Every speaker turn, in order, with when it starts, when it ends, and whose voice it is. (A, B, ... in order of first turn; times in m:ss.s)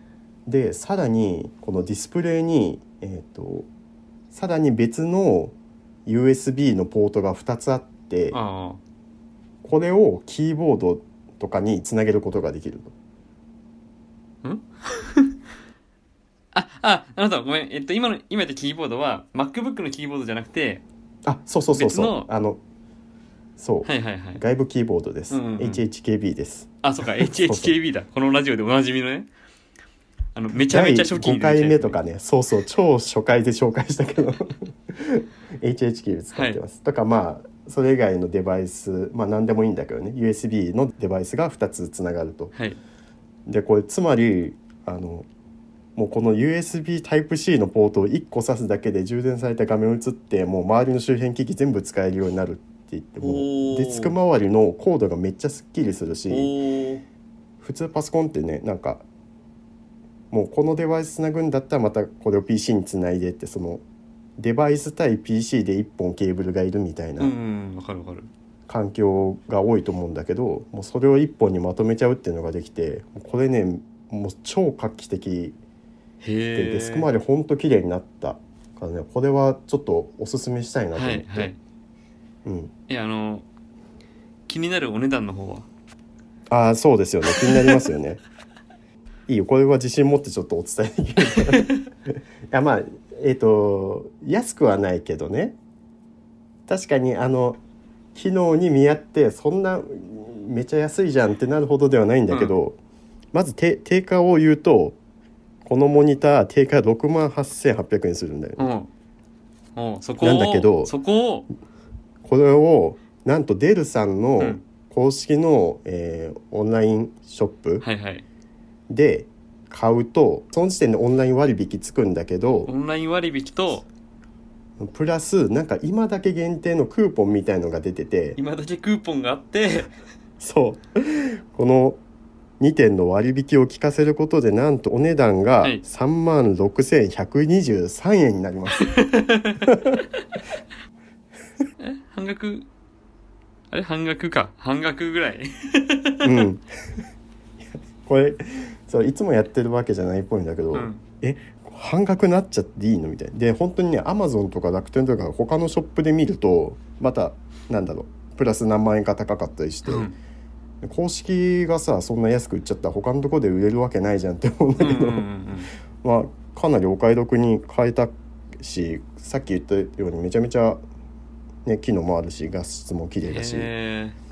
0:00.4-0:03.7 A
0:04.3-0:08.4 A
0:08.3-0:08.8 B
0:09.6-0:12.9 A
0:14.4-0:15.4 B
0:16.5-0:20.8 B
0:21.2-0:22.6 A
0:21.7-0:22.3 B
0:23.6-0:27.7 A
0:23.8-0:24.4 B
0:25.3-0:25.8 B
0:26.8-0:29.3 B
0:30.3-0:32.0 B
0:30.6-0:42.5 A
0:36.3-0:36.6 B
0:42.5-0:42.8 B
0:43.5-0:45.3 A
0:46.0-0:56.5 A
0:53.2-0:54.2 B
0:56.3-0:57.0 B
0:57.6-0:59.0 A
1:00.3-1:03.8 A
1:04.4-1:07.3 A
1:07.2-1:08.3 B
1:08.7-1:15.6 A
1:16.2-1:17.1 B
1:16.5-1:21.5 A
1:20.9-1:21.6 B
1:22.4-1:22.7 A
1:22.9-1:23.4 B
1:24.5-1:25.7 B
1:26.5-1:28.2 A
1:29.3-1:35.6 A
1:31.4-1:31.8 B
1:36.7-1:37.6 A
1:38.1-1:42.8 A
1:42.3-1:42.6 B
1:43.3-1:45.0 A
1:45.6-1:48.6 A
1:48.6-1:48.9 B
1:49.8-1:51.5 B
1:50.2-1:50.9 A
1:52.2-1:57.8 A
1:57.8-1:58.2 B
1:58.9-2:02.7 A
2:02.6-2:03.8 B
2:04.8-2:08.4 A
2:08.4-2:09.9 B
2:10.4-2:12.0 A
2:12.6-2:18.9 A
2:18.8-2:19.9 B
2:19.6-2:20.0 A
2:21.8-2:22.7 B
2:23.7-2:26.5 B
2:26.2-2:27.0 A
2:28.0-2:40.1 A
2:30.7-2:31.0 B
2:39.8-2:40.1 B
2:40.8-2:45.3 A
2:44.8-2:45.7 B
2:45.9-2:50.8 A
2:51.6-2:53.7 A
2:53.2-2:54.2 B